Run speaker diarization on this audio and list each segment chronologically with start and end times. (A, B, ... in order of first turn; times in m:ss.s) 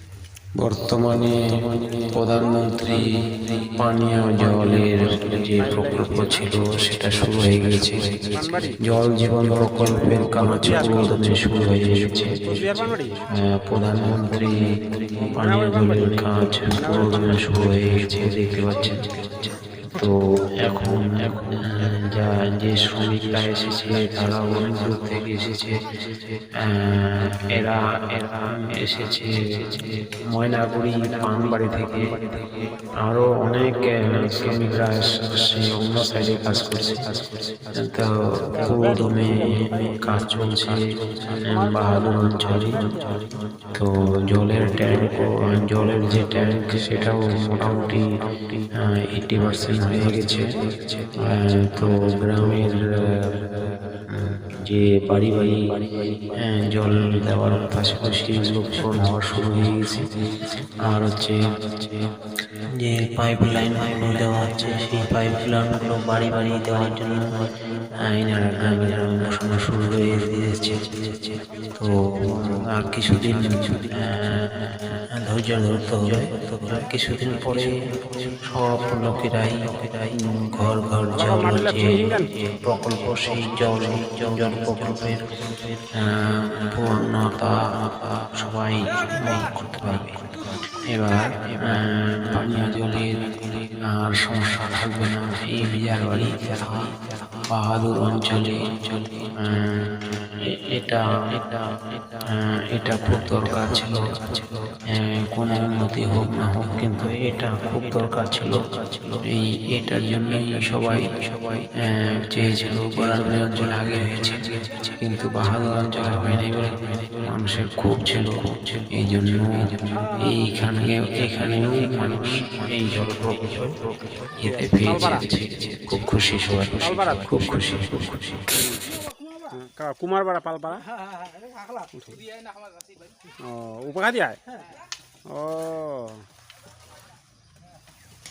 0:00.6-0:12.8 A
0:08.4-0:08.8 B
0:10.5-0:11.1 B
0:12.4-0:13.2 B
0:13.3-0:19.1 A
0:15.4-0:16.1 B
0:16.8-0:17.2 B
0:19.9-0:25.8 A
0:26.5-0:32.2 A
0:33.0-0:37.1 A
0:37.7-0:42.8 A
0:38.6-0:39.8 B
0:41.6-0:41.8 B
0:42.7-0:43.1 B
0:43.7-0:48.2 A
0:48.7-0:50.5 A
0:51.1-0:53.4 A
0:54.1-1:01.8 A
1:02.6-1:17.8 A
1:18.4-1:25.3 A
1:21.2-1:22.2 B
1:25.9-1:30.2 A
1:30.8-1:36.9 A
1:37.5-1:38.7 A
1:39.3-1:41.6 A
1:42.1-1:51.1 A
1:51.7-2:08.6 A
2:00.0-2:00.2 B
2:04.4-2:05.2 B
2:06.9-2:07.2 B
2:09.5-2:10.9 B
2:11.9-2:12.2 B
2:13.3-2:14.4 B
2:15.3-2:16.2 B